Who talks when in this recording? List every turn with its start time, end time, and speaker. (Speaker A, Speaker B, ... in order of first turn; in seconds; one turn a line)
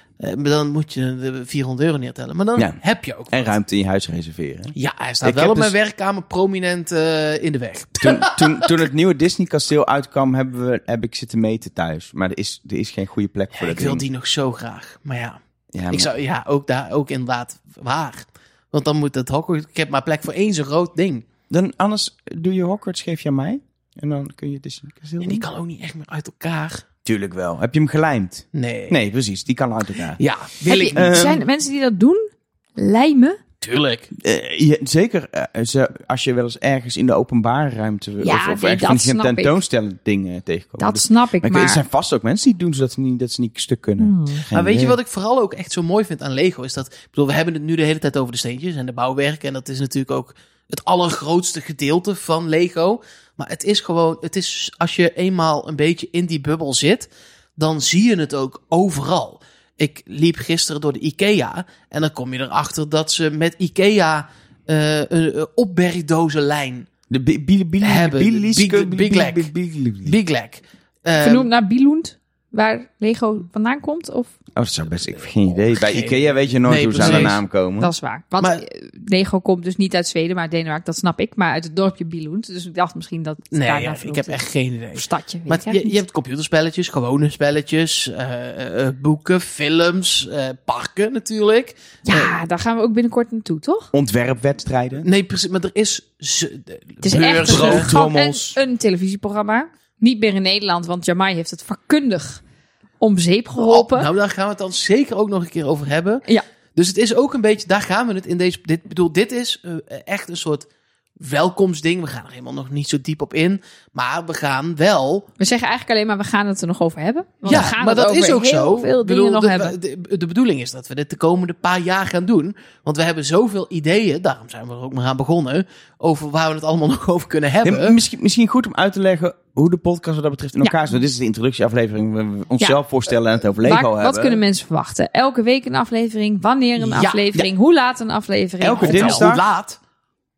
Speaker A: 0.2-3.6
Speaker B: 3.3-5.7
Speaker A: 4.8-8.8
Speaker B: 8.0-14.0
Speaker A: 13.6-21.3
Speaker B: 15.7-16.1
Speaker B: 21.5-25.4
Speaker A: 25.2-26.9
Speaker B: 27.1-30.2
Speaker A: 28.5-29.0
Speaker A: 30.2-31.3
Speaker C: 30.6-33.4
Speaker B: 30.9-31.4
Speaker A: 33.6-34.1
Speaker B: 34.2-45.0
Speaker C: 38.2-39.5
Speaker C: 40.8-41.8
Speaker C: 44.0-44.4
Speaker A: 44.5-66.9
Speaker B: 67.1-70.2
Speaker A: 67.8-69.5
Speaker A: 70.0-71.5
Speaker C: 71.2-74.4
Speaker B: 74.5-77.9
Speaker A: 75.2-77.4
Speaker C: 77.0-84.4
Speaker A: 83.5-92.3
Speaker C: 85.0-86.0
Speaker C: 92.1-93.9
Speaker B: 93.9-95.1
Speaker A: 95.0-97.9
Speaker C: 97.0-102.4
Speaker B: 97.5-98.6
Speaker C: 103.0-104.1
Speaker A: 103.6-106.2
Speaker A: 106.8-110.7
Speaker A: 111.2-115.3
Speaker C: 115.4-119.8
Speaker A: 117.5-128.0
Speaker B: 127.6-134.4
Speaker C: 133.6-139.3
Speaker A: 136.8-137.2
Speaker B: 138.6-139.4
Speaker A: 138.7-139.8